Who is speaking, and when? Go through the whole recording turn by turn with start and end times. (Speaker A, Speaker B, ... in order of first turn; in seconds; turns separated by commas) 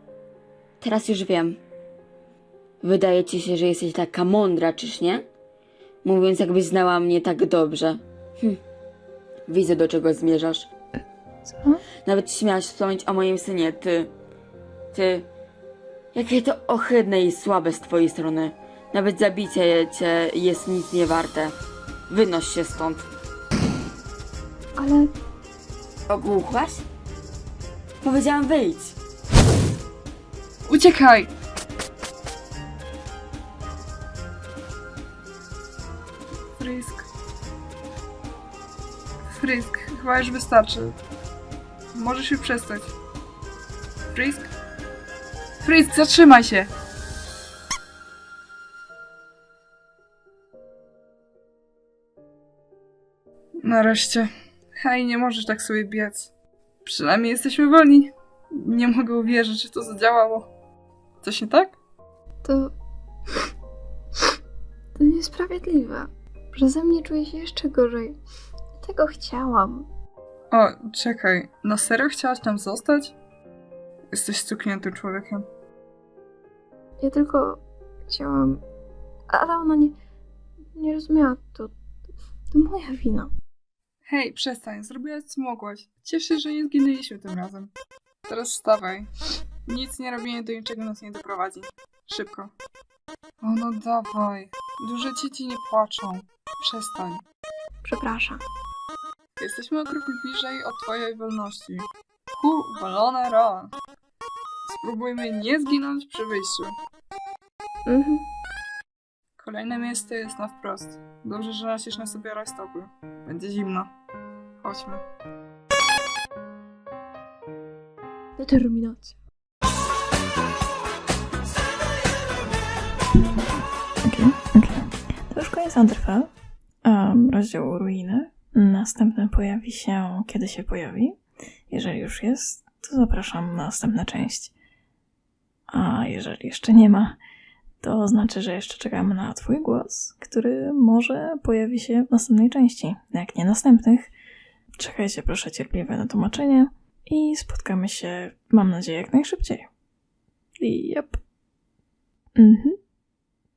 Speaker A: 0.8-1.6, Speaker A: 2.8-5.2, Speaker A: 6.0-8.6, Speaker A: 9.5-10.7, Speaker A: 12.0-14.1, Speaker A: 14.9-15.3, Speaker A: 16.1-21.5, Speaker A: 22.1-23.1, Speaker B: 24.8-25.1, Speaker A: 26.1-26.9, Speaker A: 28.0-28.9, Speaker C: 30.6-31.3, Speaker C: 36.6-37.1, Speaker C: 39.3-41.0, Speaker C: 41.9-42.9, Speaker C: 44.1-44.5, Speaker C: 45.6-46.7, Speaker C: 53.6-56.3, Speaker C: 56.8-60.5, Speaker C: 61.2-61.8, Speaker B: 62.4-62.7, Speaker B: 65.0-68.2, Speaker B: 68.8-69.8, Speaker C: 70.5-73.2, Speaker C: 74.1-75.5, Speaker B: 77.0-78.6, Speaker B: 79.3-79.9, Speaker B: 80.8-81.7, Speaker B: 82.5-83.3, Speaker C: 84.0-87.7, Speaker C: 88.3-89.1, Speaker C: 89.7-92.5, Speaker C: 93.4-97.2, Speaker B: 97.8-98.4, Speaker C: 99.4-103.7, Speaker C: 104.7-106.8, Speaker B: 107.9-108.2, Speaker C: 109.4-113.9, Speaker C: 114.6-115.0, Speaker B: 118.4-119.1, Speaker D: 124.0-126.3, Speaker D: 126.8-134.5, Speaker D: 135.7-137.2, Speaker D: 137.8-144.1, Speaker D: 144.8-149.7, Speaker D: 150.6-151.2, Speaker D: 152.3-152.8